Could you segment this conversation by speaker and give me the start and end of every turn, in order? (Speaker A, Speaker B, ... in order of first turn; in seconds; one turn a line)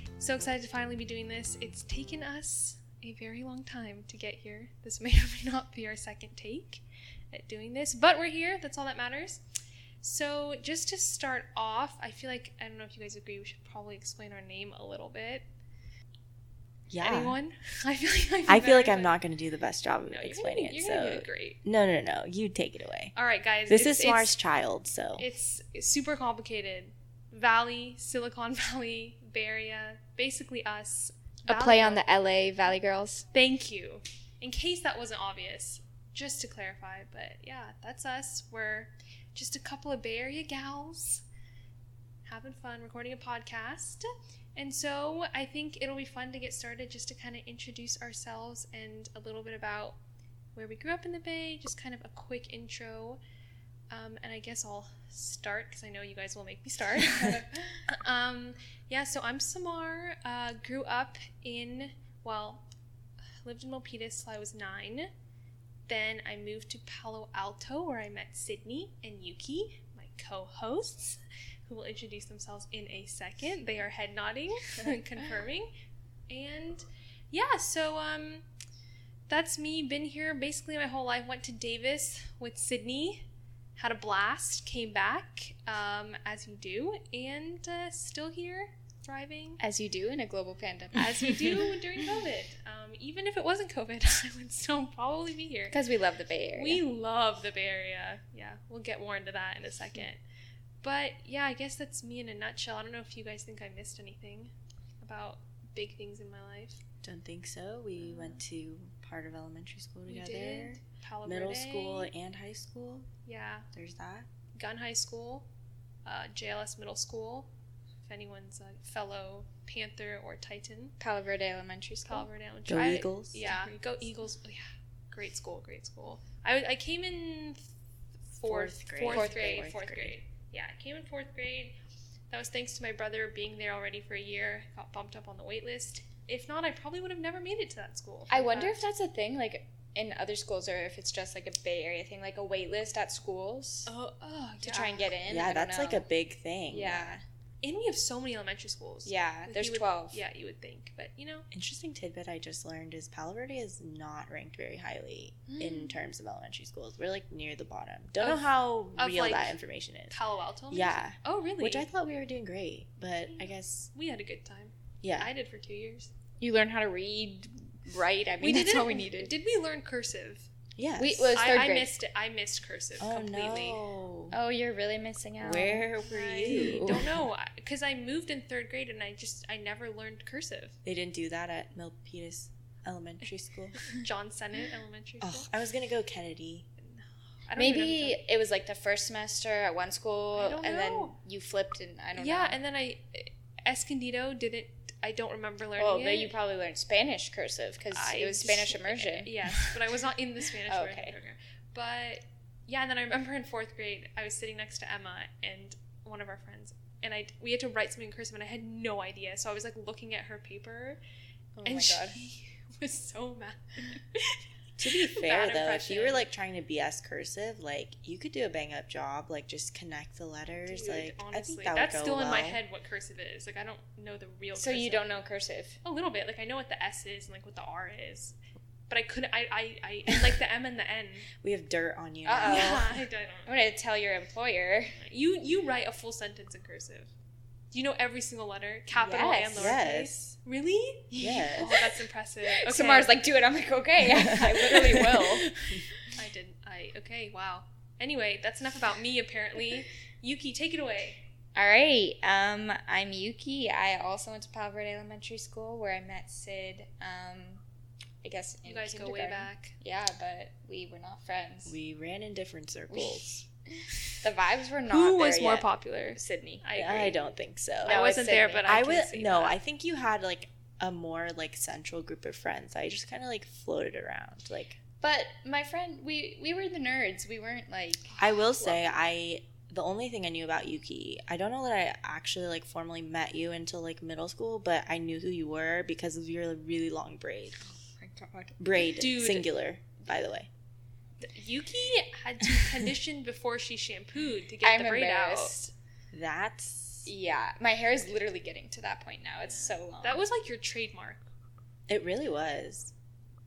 Speaker A: 0.2-9.4
Speaker A: 10.0-15.4
Speaker B: 16.9-17.4
Speaker A: 17.0-19.2
Speaker B: 18.5-23.1
Speaker A: 20.1-21.6
Speaker A: 23.1-24.3
Speaker B: 23.7-25.2
Speaker A: 25.2-32.0
Speaker C: 31.5-33.2
Speaker A: 33.3-41.2
Speaker A: 42.2-50.0
Speaker A: 50.5-53.2
Speaker A: 53.9-62.6
Speaker A: 63.4-65.1
Speaker A: 65.9-75.7
Speaker A: 76.3-78.4
Speaker A: 79.3-83.2
Speaker A: 83.8-89.6
Speaker C: 89.6-91.5
Speaker A: 90.9-95.8
Speaker C: 95.7-96.8
Speaker A: 96.5-100.2
Speaker A: 100.8-106.8
Speaker B: 107.0-113.1
Speaker A: 108.0-108.4
Speaker A: 110.1-112.1
Speaker A: 113.2-113.7
Speaker B: 113.7-114.3
Speaker A: 114.5-115.5
Speaker A: 116.0-117.5
Speaker A: 118.0-121.0
Speaker C: 121.0-122.3
Speaker A: 122.0-127.7
Speaker B: 122.7-123.5
Speaker A: 128.3-131.7
Speaker B: 128.4-130.2
Speaker C: 129.0-129.7
Speaker A: 132.3-138.8
Speaker C: 138.3-143.9
Speaker A: 143.9-145.1
Speaker C: 144.6-146.1
Speaker B: 145.2-147.1
Speaker C: 146.7-147.2
Speaker A: 147.6-151.4
Speaker C: 149.0-150.2
Speaker B: 151.5-160.1
Speaker C: 155.5-156.0
Speaker A: 158.9-159.6
Speaker A: 160.1-161.8
Speaker B: 160.7-163.9
Speaker A: 163.9-166.1
Speaker B: 165.0-165.3
Speaker C: 166.4-169.3
Speaker A: 168.4-170.5
Speaker B: 170.8-171.3
Speaker C: 171.0-171.9
Speaker A: 171.3-173.8
Speaker B: 173.0-174.3
Speaker C: 174.3-175.9
Speaker B: 175.4-177.2
Speaker A: 176.0-180.8
Speaker B: 180.8-183.8
Speaker A: 183.9-185.5
Speaker B: 185.2-186.7
Speaker A: 186.8-188.2
Speaker C: 187.6-192.6
Speaker A: 190.3-191.2
Speaker A: 192.2-196.3
Speaker C: 195.8-199.3
Speaker A: 197.9-211.0
Speaker C: 200.6-201.2
Speaker C: 211.6-212.2
Speaker A: 211.6-214.4
Speaker B: 214.8-222.6
Speaker A: 215.0-216.3
Speaker A: 220.6-225.2
Speaker C: 224.5-225.8
Speaker A: 225.8-228.3
Speaker A: 228.9-231.3
Speaker B: 231.4-232.8
Speaker C: 232.2-235.0
Speaker A: 232.4-233.7
Speaker A: 235.0-237.1
Speaker A: 237.7-243.2
Speaker C: 238.9-239.8
Speaker B: 239.5-240.3
Speaker C: 241.1-245.8
Speaker B: 241.2-241.7
Speaker B: 244.4-245.9
Speaker A: 246.1-251.2
Speaker C: 251.5-257.6
Speaker C: 258.2-261.8
Speaker A: 258.6-259.7
Speaker B: 261.6-263.4
Speaker C: 262.9-263.4
Speaker C: 264.2-266.6
Speaker A: 264.9-267.2
Speaker B: 266.7-268.0
Speaker C: 267.8-268.7
Speaker A: 267.8-269.6
Speaker B: 268.6-274.8
Speaker C: 275.0-278.8
Speaker B: 278.2-287.6
Speaker C: 287.8-288.6
Speaker B: 288.6-290.5
Speaker A: 288.9-289.5
Speaker A: 291.2-295.6
Speaker C: 294.6-295.7
Speaker B: 296.1-297.1
Speaker C: 297.0-300.2
Speaker A: 299.5-301.3
Speaker B: 301.9-302.9